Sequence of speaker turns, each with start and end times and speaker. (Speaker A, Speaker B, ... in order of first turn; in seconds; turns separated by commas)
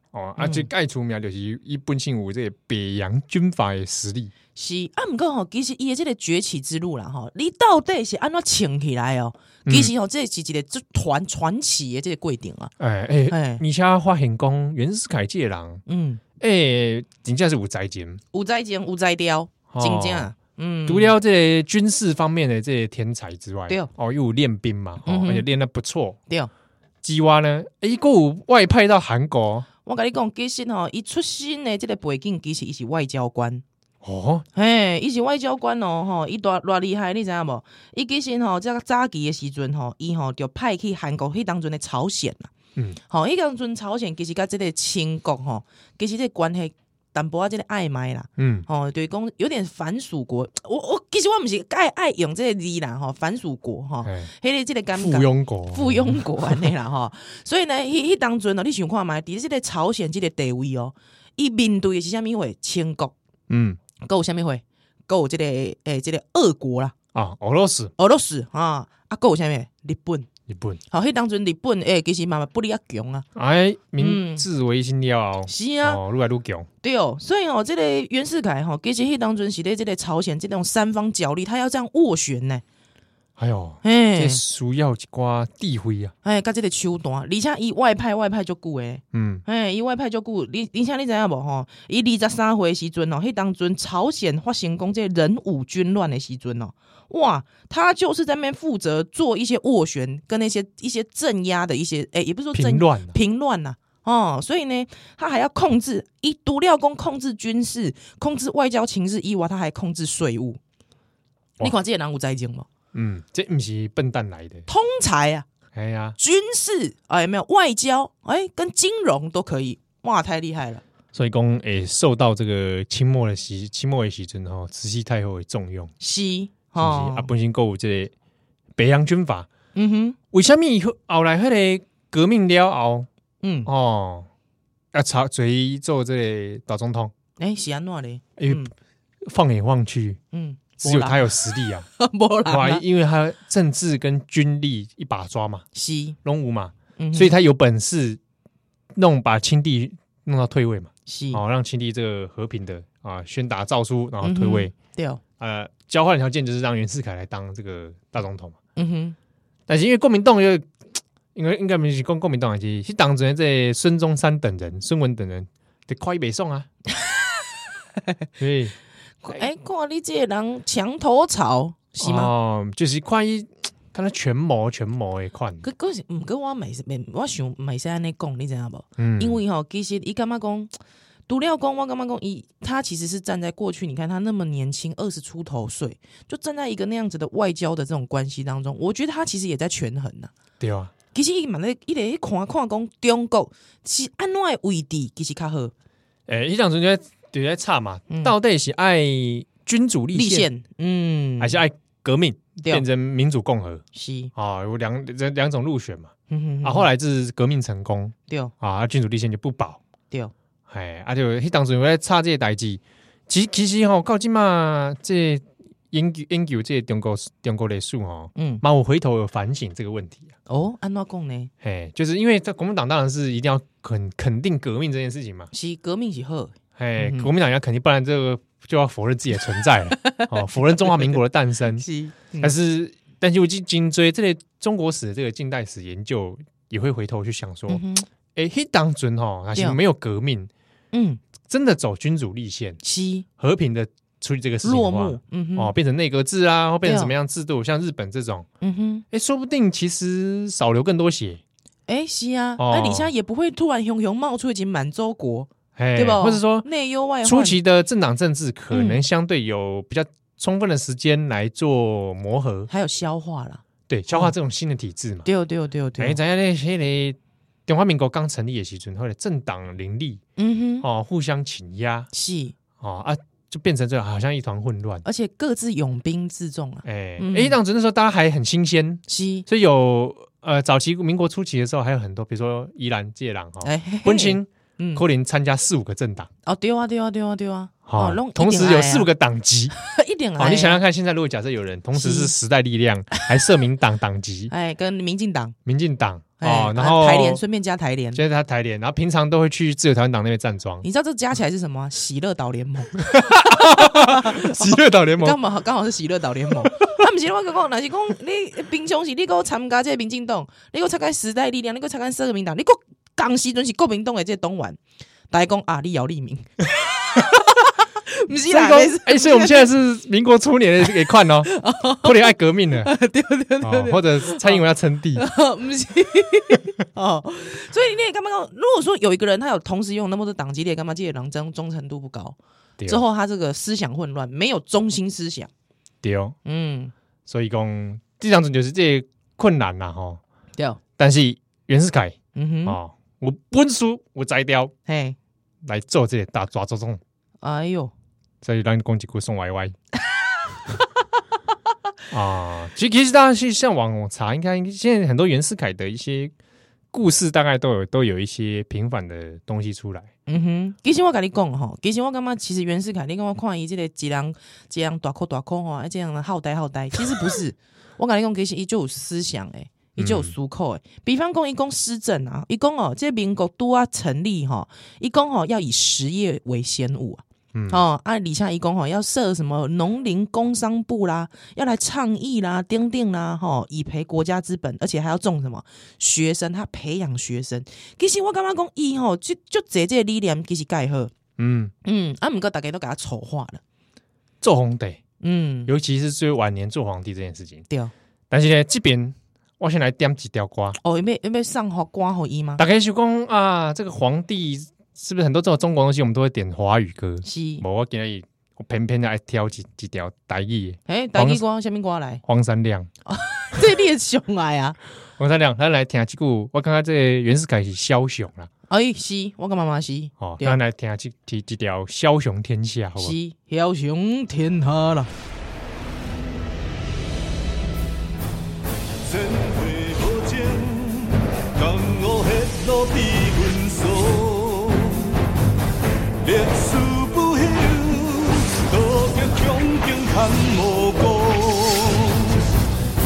Speaker A: 0.1-4.3, Speaker B: 0.4-0.7, Speaker B: 4.5-12.7, Speaker A: 9.7-9.9, Speaker A: 12.8-15.8, Speaker B: 13.3-13.6, Speaker B: 15.9-16.2, Speaker A: 16.4-18.2, Speaker B: 18.3-21.1, Speaker A: 19.7-20.3, Speaker A: 20.9-26.2, Speaker B: 25.1-25.4, Speaker A: 27.0-29.7, Speaker B: 29.9-33.6, Speaker A: 34.0-34.4, Speaker B: 34.5-42.5, Speaker B: 43.1-63.1, Speaker A: 48.4-48.7, Speaker A: 54.0-54.3, Speaker A: 54.9-56.7, Speaker A: 63.5-63.8, Speaker B: 64.0-66.9, Speaker A: 67.1-67.9, Speaker B: 68.0-70.3, Speaker A: 70.5-70.8, Speaker B: 70.9-73.2, Speaker A: 73.3-76.7, Speaker B: 74.0-74.5, Speaker B: 75.5-76.0, Speaker B: 76.8-82.6, Speaker A: 83.4-86.1, Speaker B: 83.8-84.4, Speaker B: 86.2-110.6, Speaker A: 89.1-89.4, Speaker A: 102.5-103.2, Speaker B: 111.6-112.7, Speaker A: 112.9-114.7, Speaker B: 114.7-115.5, Speaker A: 115.7-116.2, Speaker B: 116.2-120.8, Speaker A: 121.1-125.9, Speaker B: 126.0-127.3, Speaker A: 126.8-128.1, Speaker A: 128.8-129.5, Speaker B: 129.7-130.2, Speaker A: 130.3-133.1, Speaker B: 133.4-133.7, Speaker A: 133.7-134.3, Speaker A: 134.9-137.1, Speaker B: 137.4-138.7, Speaker A: 138.4-138.7, Speaker A: 139.2-140.2, Speaker B: 140.3-142.8, Speaker A: 140.8-141.9, Speaker A: 142.5-145.6, Speaker B: 145.7-146.2, Speaker A: 146.2-148.2, Speaker B: 147.0-147.3, Speaker A: 148.9-154.7, Speaker B: 151.1-151.4, Speaker B: 154.2-155.2, Speaker A: 155.4-158.6, Speaker B: 158.8-159.2, Speaker A: 159.7-160.7, Speaker A: 161.3-166.7, Speaker A: 168.4-168.7, Speaker B: 169.2-172.3, Speaker A: 172.0-175.6, Speaker B: 175.6-180.7, Speaker A: 179.0-179.4, Speaker B: 181.3-190.3, Speaker A: 190.6-190.9, Speaker B: 191.1-195.7, Speaker A: 196.3-200.5, Speaker B: 198.1-198.3, Speaker B: 200.1-201.6, Speaker A: 201.4-209.8, Speaker B: 202.6-202.8, Speaker B: 203.9-204.3, Speaker B: 206.3-206.9, Speaker B: 208.3-208.5, Speaker A: 210.7-220.3, Speaker B: 218.4-218.6, Speaker B: 220.5-221.5, Speaker A: 221.6-225.5, Speaker B: 225.5-227.3, Speaker A: 226.8-231.9, Speaker B: 230.0-231.2, Speaker B: 231.7-232.5, Speaker A: 232.4-237.8, Speaker B: 237.7-238.1, Speaker A: 238.3-240.5, Speaker B: 239.5-239.8, Speaker B: 240.9-241.2, Speaker A: 241.5-242.8, Speaker B: 242.8-243.2, Speaker A: 243.4-248.5, Speaker B: 244.6-245.7, Speaker B: 246.8-247.1, Speaker B: 248.6-249.1, Speaker A: 249.1-251.4, Speaker B: 251.9-257.6, Speaker A: 252.6-253.1, Speaker A: 255.8-256.6, Speaker A: 257.2-262.7, Speaker B: 258.7-259.0, Speaker B: 262.7-264.3, Speaker A: 263.9-265.3, Speaker B: 265.2-266.2, Speaker A: 266.0-270.2, Speaker B: 270.4-270.9, Speaker A: 270.8-272.1, Speaker B: 272.1-272.5, Speaker A: 272.8-275.0, Speaker B: 275.0-277.6, Speaker A: 276.9-286.3, Speaker B: 279.1-279.4, Speaker B: 283.6-285.0, Speaker B: 286.4-289.1, Speaker A: 287.9-289.7, Speaker B: 289.8-290.8, Speaker A: 290.4-294.5, Speaker B: 291.9-292.3, Speaker B: 294.5-295.5, Speaker A: 295.6-297.4, Speaker B: 296.4-298.2, Speaker A: 298.1-300.9, Speaker B: 300.8-314.8, Speaker A: 303.0-305.4, Speaker B: 315.3-319.7, Speaker A: 318.4-322.9, Speaker B: 321.4-324.6, Speaker A: 323.6-325.3, Speaker B: 325.1-335.5, Speaker A: 336.0-336.4, Speaker B: 336.4-336.9, Speaker A: 337.2-340.2, Speaker A: 341.0-344.7, Speaker B: 342.3-342.8, Speaker B: 344.9-345.2, Speaker A: 345.6-347.0, Speaker B: 347.4-347.9, Speaker A: 348.4-349.8, Speaker A: 352.1-356.3, Speaker A: 356.9-360.1, Speaker B: 360.3-391.1, Speaker A: 370.0-370.3, Speaker A: 377.5-377.8, Speaker A: 391.4-391.7, Speaker B: 391.8-393.6, Speaker A: 394.4-395.0, Speaker B: 395.2-395.7, Speaker A: 395.7-397.6, Speaker A: 398.3-400.8, Speaker B: 400.8-402.6, Speaker A: 402.6-411.4, Speaker B: 407.2-407.6, Speaker B: 410.9-412.2, Speaker A: 412.2-412.9, Speaker B: 413.1-414.8, Speaker A: 415.2-418.5, Speaker B: 418.7-420.6, Speaker A: 420.2-423.1, Speaker B: 423.0-425.1, Speaker C: 429.1-435.1, Speaker C: 436.2-442.4